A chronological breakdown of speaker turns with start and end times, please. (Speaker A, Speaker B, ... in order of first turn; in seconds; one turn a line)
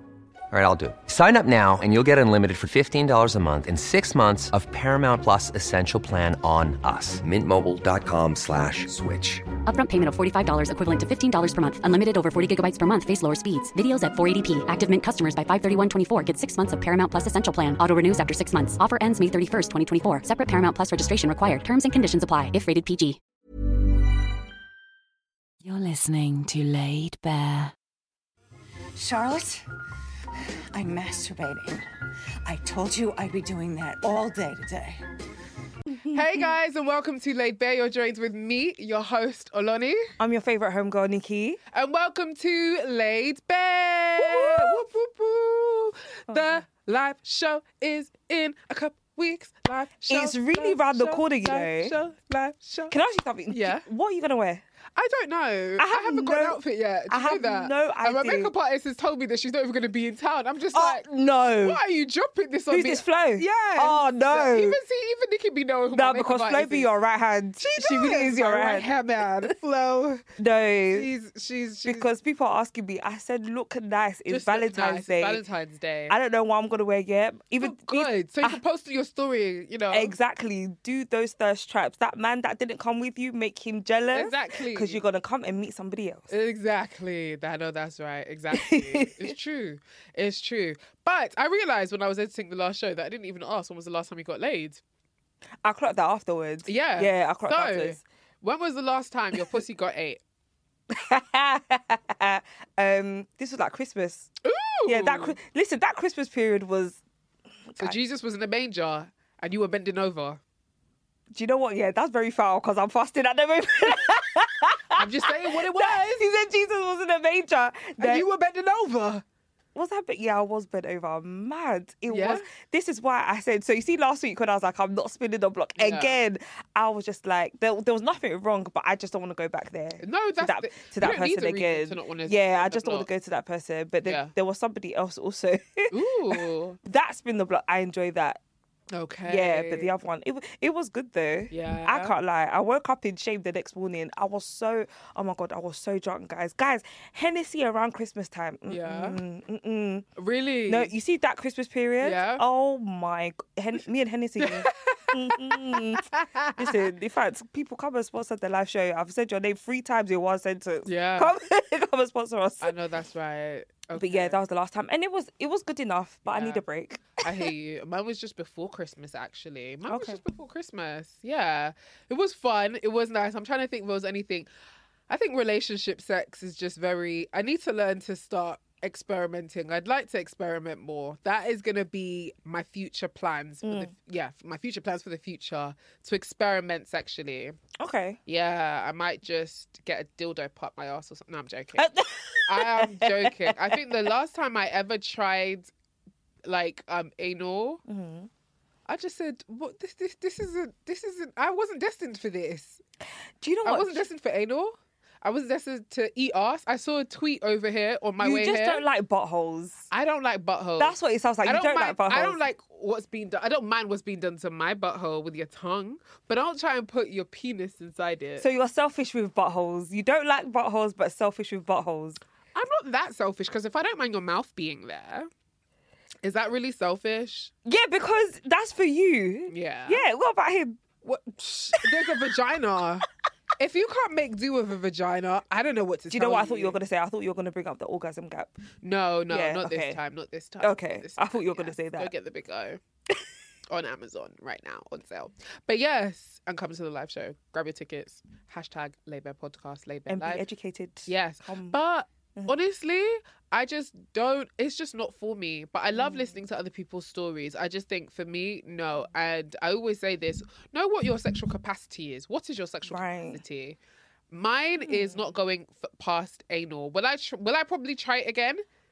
Speaker A: 0.5-9.4
Speaker B: 9.6-23.2
Speaker C: 25.6-27.7
Speaker D: 28.9-29.6
Speaker D: 30.7-31.8
Speaker D: 32.4-35.0
Speaker E: 35.9-36.2
Speaker F: 36.1-40.1
Speaker E: 40.2-41.6
Speaker F: 41.7-52.9
Speaker E: 44.2-44.8
Speaker E: 50.1-52.0
Speaker E: 52.9-54.6
Speaker F: 53.5-53.8
Speaker F: 54.9-61.0
Speaker E: 55.8-58.5
Speaker E: 60.7-61.8
Speaker F: 61.6-66.9
Speaker E: 62.7-64.8
Speaker E: 65.9-68.9
Speaker F: 67.6-70.3
Speaker E: 70.4-71.1
Speaker F: 70.9-72.1
Speaker E: 71.8-75.4
Speaker F: 74.3-76.1
Speaker E: 76.1-78.6
Speaker F: 77.6-80.1
Speaker E: 79.9-86.3
Speaker F: 84.1-85.0
Speaker F: 86.3-94.8
Speaker E: 88.5-89.3
Speaker E: 95.6-98.0
Speaker F: 96.7-100.2
Speaker E: 100.9-104.3
Speaker F: 104.4-105.4
Speaker E: 104.9-107.0
Speaker E: 107.7-108.0
Speaker F: 107.8-110.4
Speaker E: 111.3-118.3
Speaker F: 114.9-116.3
Speaker F: 118.0-119.2
Speaker E: 119.7-138.4
Speaker F: 122.1-122.5
Speaker F: 125.8-126.2
Speaker F: 130.0-133.1
Speaker F: 134.0-134.3
Speaker F: 135.9-136.8
Speaker F: 138.9-139.9
Speaker E: 139.2-150.1
Speaker F: 141.5-142.2
Speaker F: 148.7-149.2
Speaker F: 150.2-150.9
Speaker E: 150.7-162.8
Speaker F: 152.0-152.4
Speaker F: 154.4-156.8
Speaker F: 160.8-161.3
Speaker F: 162.6-164.4
Speaker E: 163.9-167.5
Speaker F: 166.2-166.6
Speaker F: 167.2-174.5
Speaker E: 169.9-170.2
Speaker F: 175.1-187.6
Speaker E: 183.6-183.9
Speaker E: 187.8-188.2
Speaker F: 188.2-191.9
Speaker E: 191.8-194.1
Speaker F: 192.4-195.7
Speaker F: 196.4-197.8
Speaker E: 197.9-198.3
Speaker F: 198.9-202.8
Speaker E: 203.4-204.0
Speaker F: 203.6-208.8
Speaker E: 208.2-209.9
Speaker F: 209.9-218.4
Speaker E: 210.8-212.4
Speaker E: 218.4-222.2
Speaker F: 222.5-225.3
Speaker F: 226.2-227.5
Speaker E: 227.7-230.8
Speaker F: 229.5-230.1
Speaker F: 231.0-233.1
Speaker E: 231.7-232.2
Speaker F: 233.6-236.8
Speaker E: 236.1-238.5
Speaker F: 238.8-242.8
Speaker E: 239.3-240.0
Speaker E: 240.6-242.1
Speaker F: 243.7-250.4
Speaker E: 250.1-251.8
Speaker F: 251.1-263.8
Speaker E: 255.9-256.4
Speaker E: 262.9-263.4
Speaker F: 264.3-268.6
Speaker E: 264.8-265.2